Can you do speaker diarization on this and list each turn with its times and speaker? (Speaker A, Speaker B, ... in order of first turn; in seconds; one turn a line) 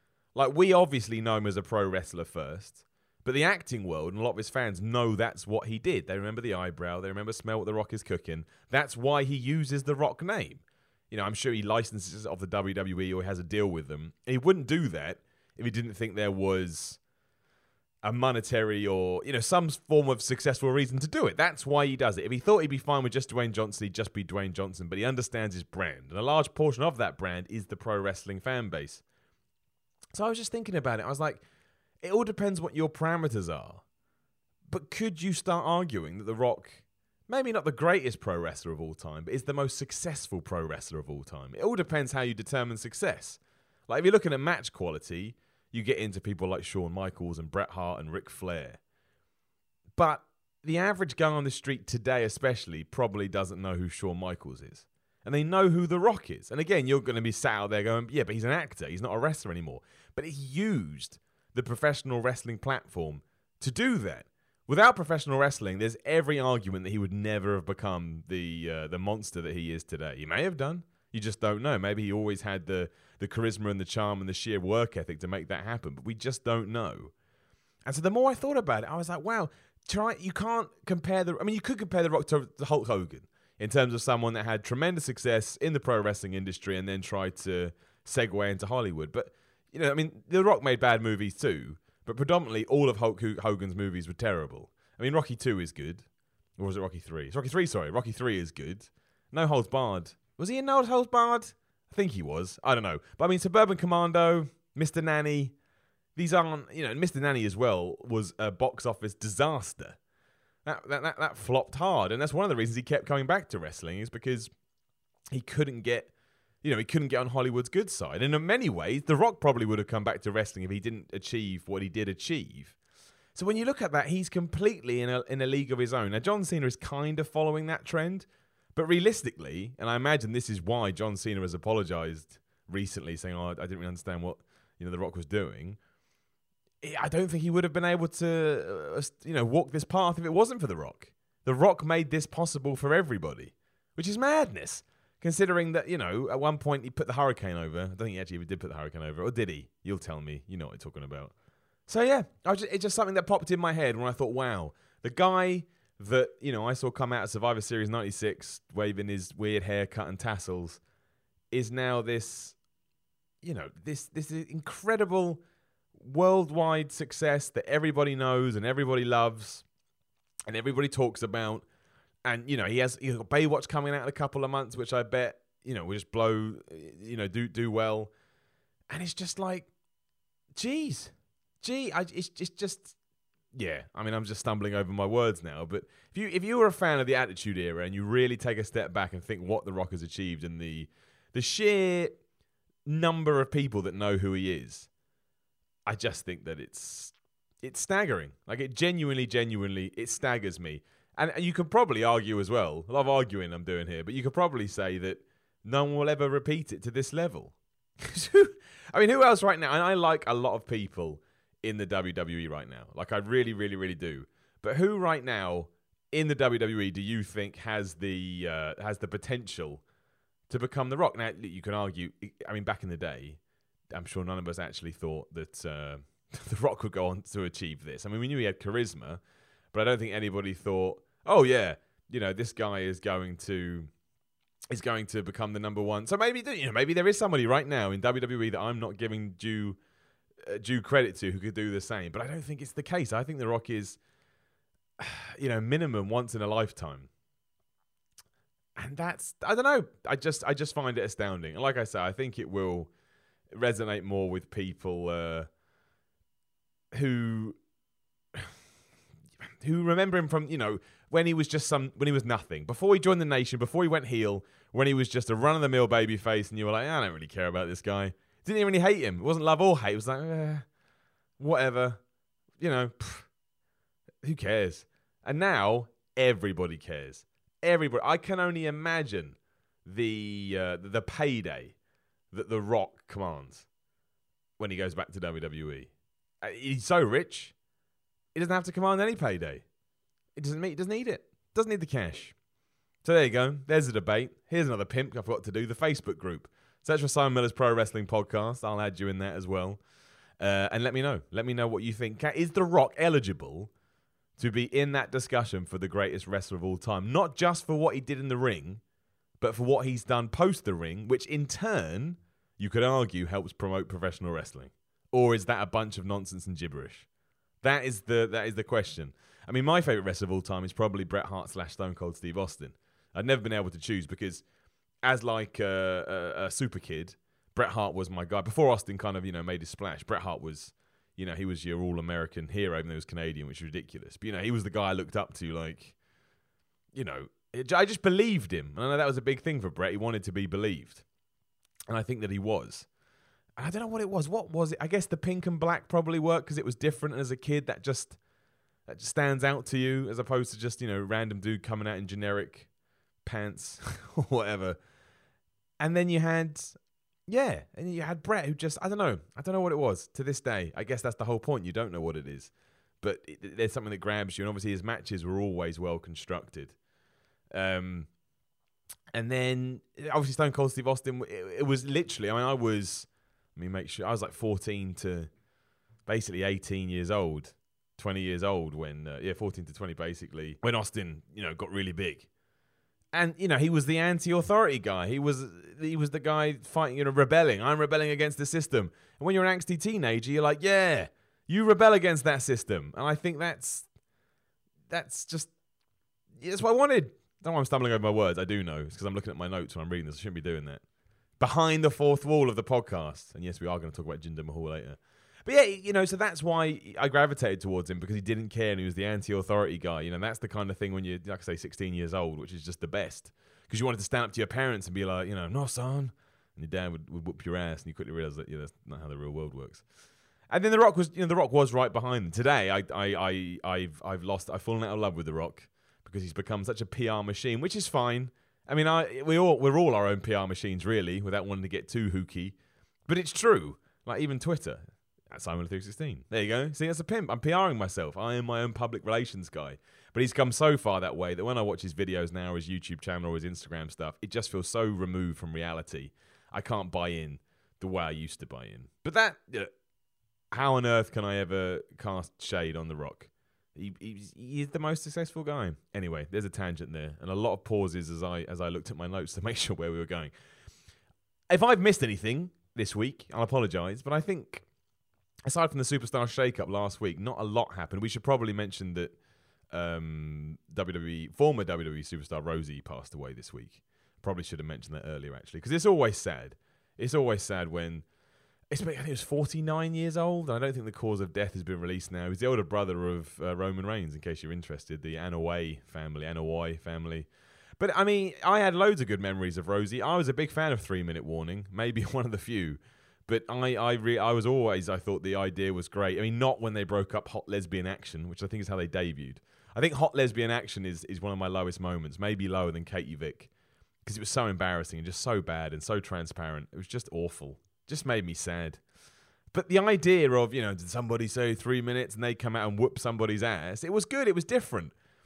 Speaker A: 0.3-17.0
Speaker A: 18.0-29.0
Speaker A: 30.1-31.4
Speaker A: 32.0-33.8
Speaker A: 34.7-48.8
Speaker A: 50.0-77.1
Speaker A: 77.9-96.0
Speaker A: 96.6-105.5
Speaker A: 106.2-110.0
Speaker A: 110.7-114.5
Speaker A: 115.3-116.1
Speaker A: 116.6-122.8
Speaker A: 123.3-135.8
Speaker A: 136.8-151.3
Speaker A: 151.9-160.8
Speaker A: 161.5-162.6
Speaker A: 163.4-165.4
Speaker A: 166.0-169.7
Speaker A: 170.5-171.7
Speaker A: 172.3-178.1
Speaker A: 178.9-179.7
Speaker A: 180.6-182.9
Speaker A: 183.5-192.2
Speaker A: 192.9-194.9
Speaker A: 195.9-219.8
Speaker A: 220.5-223.4
Speaker A: 223.9-229.2
Speaker A: 229.7-233.9
Speaker A: 234.7-239.8
Speaker A: 240.4-244.0
Speaker A: 245.0-247.1
Speaker A: 248.8-252.9
Speaker A: 253.5-255.5
Speaker A: 256.9-257.6
Speaker A: 259.6-270.7
Speaker A: 271.4-272.0
Speaker A: 272.6-273.3
Speaker A: 274.2-281.8
Speaker A: 282.3-283.7
Speaker A: 284.6-285.9
Speaker A: 286.4-287.5
Speaker A: 288.4-289.6
Speaker A: 290.4-292.4
Speaker A: 293.0-299.8
Speaker A: 300.4-303.7
Speaker A: 304.4-308.8
Speaker A: 309.4-317.1
Speaker A: 317.6-324.4
Speaker A: 325.0-335.9
Speaker A: 336.9-341.0
Speaker A: 341.9-342.9
Speaker A: 343.6-348.2
Speaker A: 348.9-352.7
Speaker A: 353.2-354.8
Speaker A: 355.8-366.8
Speaker A: 367.5-368.1
Speaker A: 369.1-375.3
Speaker A: 376.1-382.3
Speaker A: 383.1-393.9
Speaker A: 394.9-395.5
Speaker A: 396.4-400.8
Speaker A: 401.4-419.8
Speaker A: 420.5-432.6
Speaker A: 433.1-449.7
Speaker A: 450.5-460.3
Speaker A: 461.5-464.6
Speaker A: 465.5-469.1
Speaker A: 469.7-478.1
Speaker A: 478.7-503.5
Speaker A: 504.1-508.8
Speaker A: 509.5-514.9